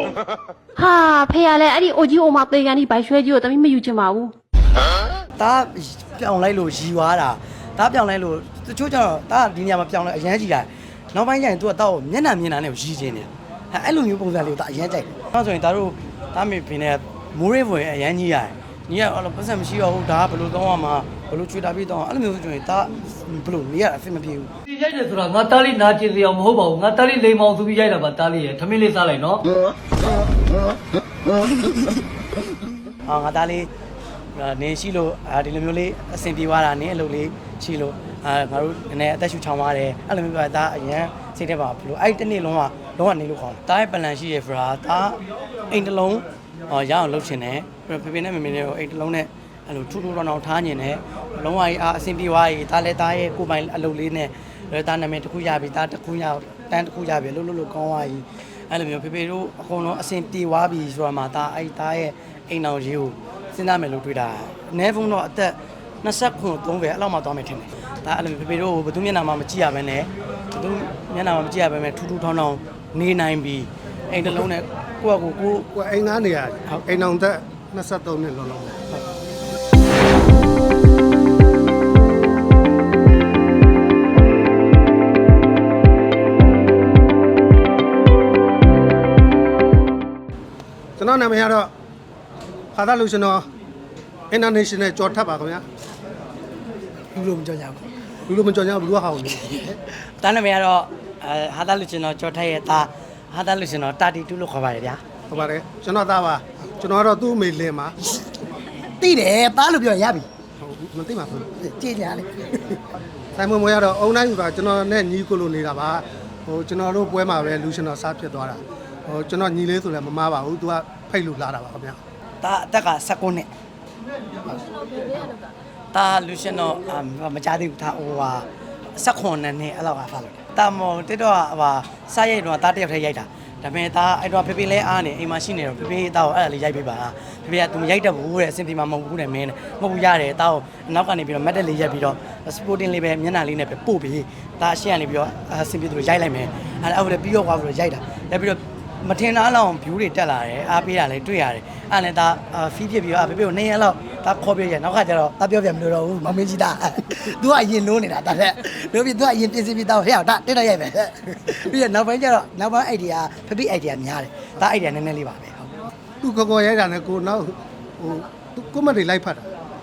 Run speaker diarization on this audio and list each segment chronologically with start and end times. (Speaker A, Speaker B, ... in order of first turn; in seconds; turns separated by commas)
Speaker A: 0.8-4.3, Speaker B: 5.4-24.5, Speaker C: 24.7-29.4, Speaker B: 33.0-33.7, Speaker B: 34.3-75.7, Speaker D: 75.7-78.8, Speaker D: 91.0-91.7, Speaker D: 92.7-93.5, Speaker D: 94.3-95.6, Speaker B: 97.1-97.9, Speaker D: 98.3-99.7, Speaker B: 99.3-105.0, Speaker D: 105.3-108.0, Speaker B: 108.9-110.2, Speaker D: 110.6-111.6, Speaker B: 111.5-112.3, Speaker D: 113.3-122.0, Speaker B: 122.4-123.5, Speaker B: 125.9-165.7, Speaker D: 166.2-169.5